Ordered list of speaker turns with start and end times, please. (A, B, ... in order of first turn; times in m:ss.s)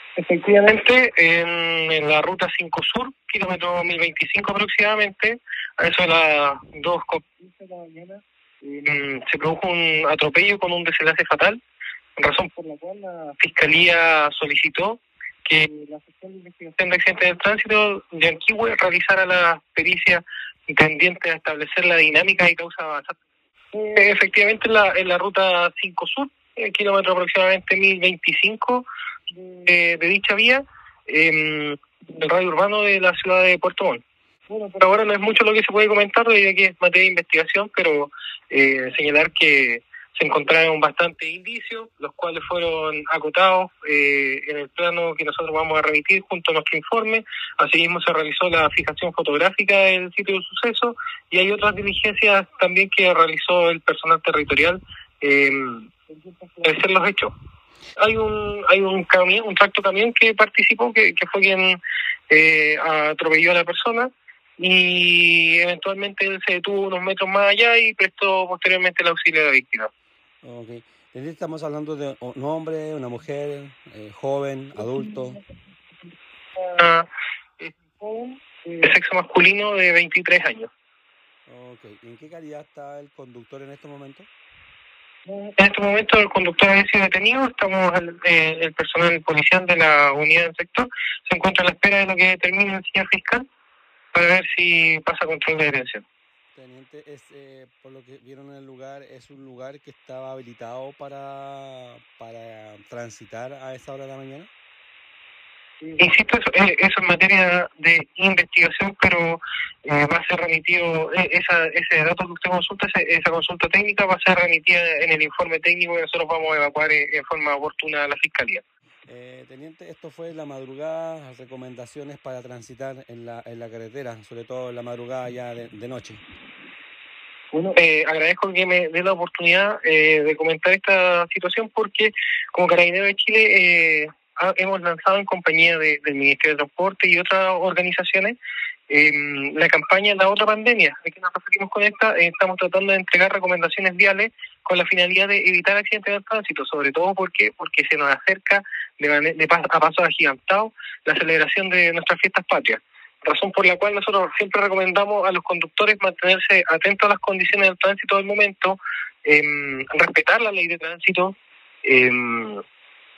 0:00.2-0:11.6 A
0:12.2-0:23.2 A
0:23.7-0:57.3 A
0:58.0-1:01.8 A
1:02.3-1:09.9 A
1:10.4-1:15.4 B
1:16.6-1:17.1 A
1:17.6-1:20.7 A
1:21.5-1:24.3 B
1:25.3-1:33.4 A
1:34.1-1:36.0 A
1:36.5-1:44.5 B
1:46.0-1:58.6 A
1:59.1-2:06.2 B
2:07.5-2:18.4 A
2:18.9-2:42.6 A